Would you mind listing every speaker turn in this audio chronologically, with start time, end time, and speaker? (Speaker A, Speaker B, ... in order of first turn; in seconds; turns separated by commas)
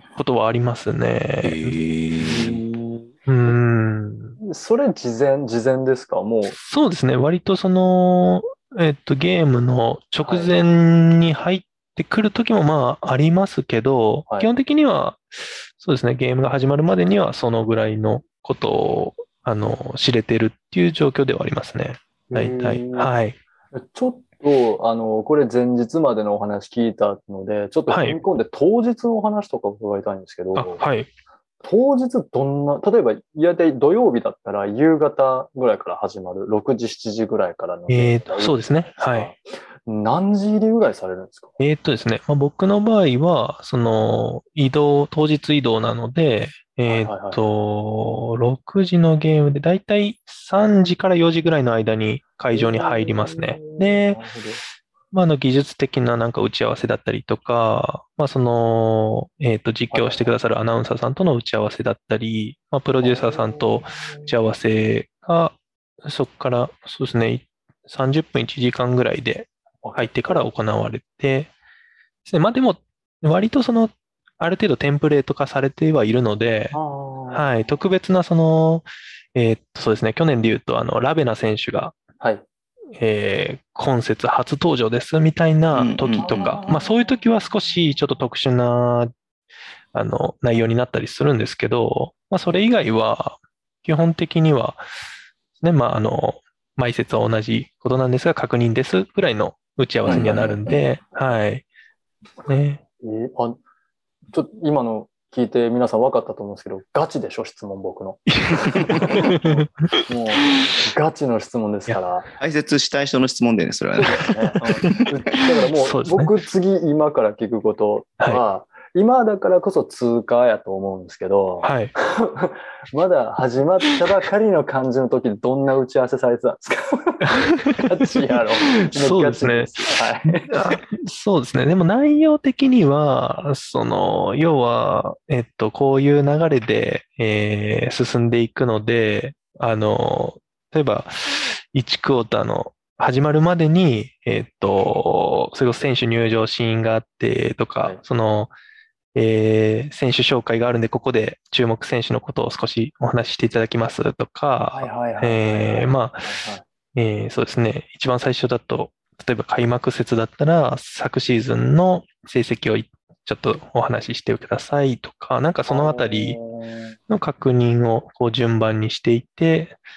Speaker A: 0.1-1.8, Speaker B: 1.4-2.6, Speaker C: 2.3-3.1, Speaker A: 3.2-4.3, Speaker C: 4.4-6.5, Speaker A: 6.5-23.4, Speaker C: 10.2-10.5, Speaker C: 22.3-23.1, Speaker C: 23.7-30.8, Speaker A: 27.9-28.2, Speaker A: 30.5-31.1, Speaker C: 31.6-41.5, Speaker A: 37.9-39.3, Speaker A: 41.6-54.2, Speaker C: 46.9-47.4, Speaker C: 52.5-54.6, Speaker A: 55.1-71.5, Speaker C: 59.9-60.3, Speaker C: 63.0-64.3, Speaker C: 69.8-70.5, Speaker A: 72.2-76.8, Speaker C: 76.7-77.6, Speaker A: 77.3-81.9, Speaker A: 83.0-89.1, Speaker B: 85.7-86.5, Speaker C: 86.2-86.9, Speaker A: 89.9-94.8, Speaker A: 95.6-101.6, Speaker C: 100.0-100.8, Speaker B: 100.1-100.6, Speaker A: 102.5-102.8, Speaker C: 103.0-103.6, Speaker C: 104.3-112.2, Speaker A: 108.3-109.7, Speaker B: 112.4-114.4, Speaker C: 114.0-130.5, Speaker A: 115.8-116.3, Speaker A: 121.6-121.9, Speaker A: 127.5-127.9, Speaker A: 128.8-129.7, Speaker A: 130.4-148.5, Speaker A: 149.1-156.3, Speaker C: 154.7-156.6, Speaker A: 156.9-166.4, Speaker C: 165.7-166.9, Speaker A: 167.1-169.8